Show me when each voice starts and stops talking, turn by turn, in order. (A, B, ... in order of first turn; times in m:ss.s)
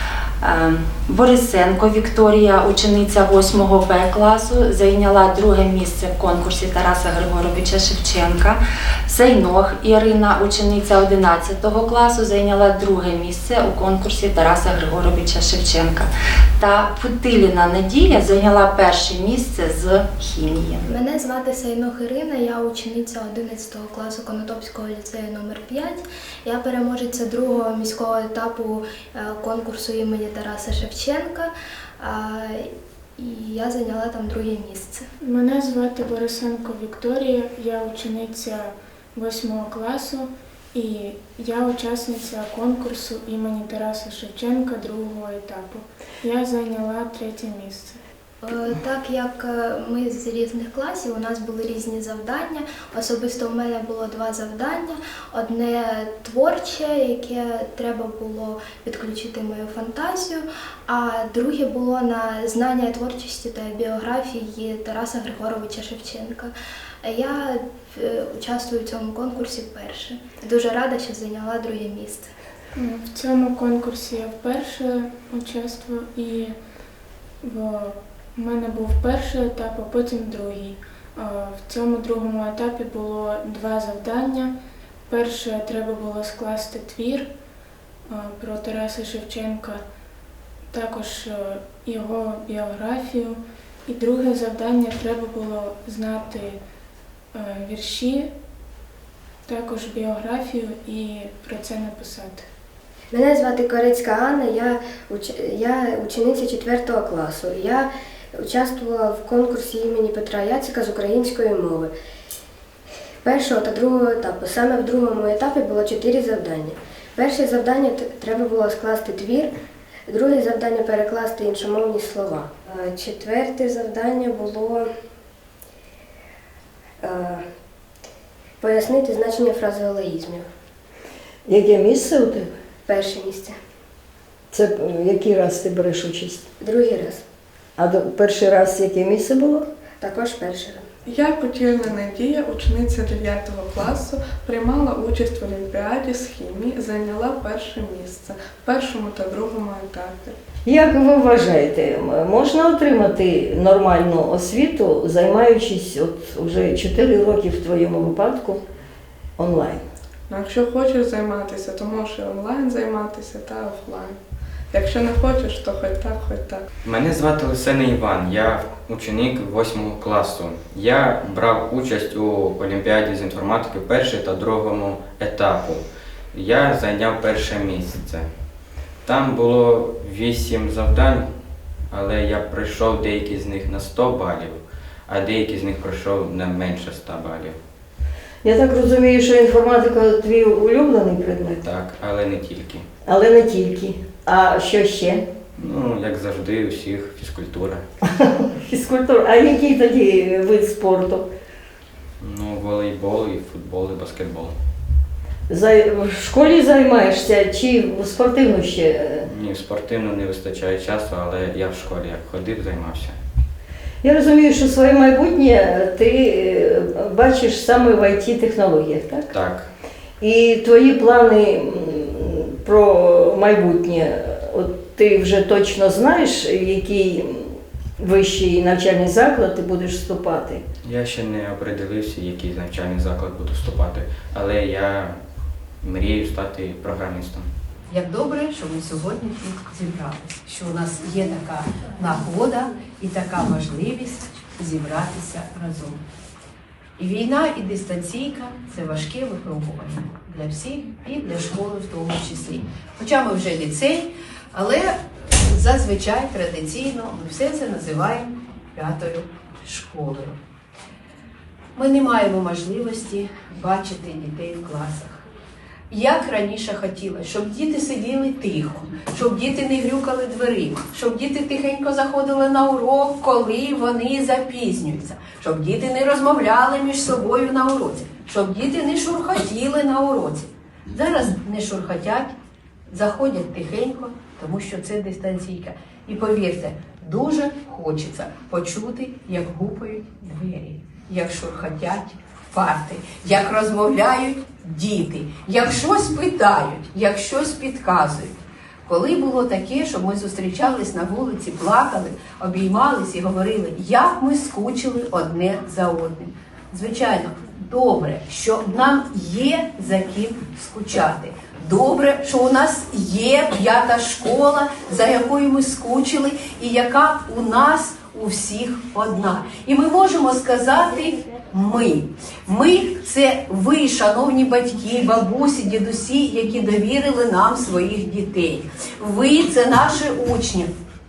0:00.4-0:20.9 A
0:20.8-0:35.0 B
0:35.2-0:48.0 C
0:48.4-1:12.3 B
1:12.8-1:16.5 C
1:17.4-1:24.5 C
1:25.1-1:27.3 C
1:28.1-1:29.8 C
1:30.7-1:36.6 C
1:37.3-1:38.3 C
1:39.5-1:42.4 C
1:43.1-1:51.9 D
1:53.2-1:59.5 D
2:00.1-2:04.9 D
2:07.0-2:07.4 D
2:08.6-2:10.5 D
2:11.4-2:12.5 E
2:12.8-2:13.6 D
2:14.5-2:16.4 E
2:16.6-2:17.2 D
2:17.8-2:19.6 E
2:20.0-2:20.8 D
2:21.0-2:30.4 F
2:30.6-2:38.6 E
2:39.4-2:39.8 E
2:40.3-2:44.2 F
2:44.7-2:46.6 F
2:46.8-2:58.3 G
2:59.0-3:01.3 G
3:01.9-3:07.6 G
3:08.4-3:11.6 E
3:11.6-3:12.8 G
3:13.0-3:15.2 E
3:15.6-3:17.8 G
3:18.1-3:21.3 E
3:22.2-3:24.5 G
3:25.5-3:29.3 E
3:29.3-3:33.2 G
3:34.0-3:39.3 E
3:39.3-3:39.7 G
3:40.2-3:50.6 E
3:50.8-3:55.2 G
3:55.8-3:57.4 G
3:57.9-4:06.0 H
4:07.0-4:20.4 H
4:21.7-4:25.2 H
4:25.9-4:42.3 H
4:42.9-4:58.3 H
4:58.8-5:30.7 H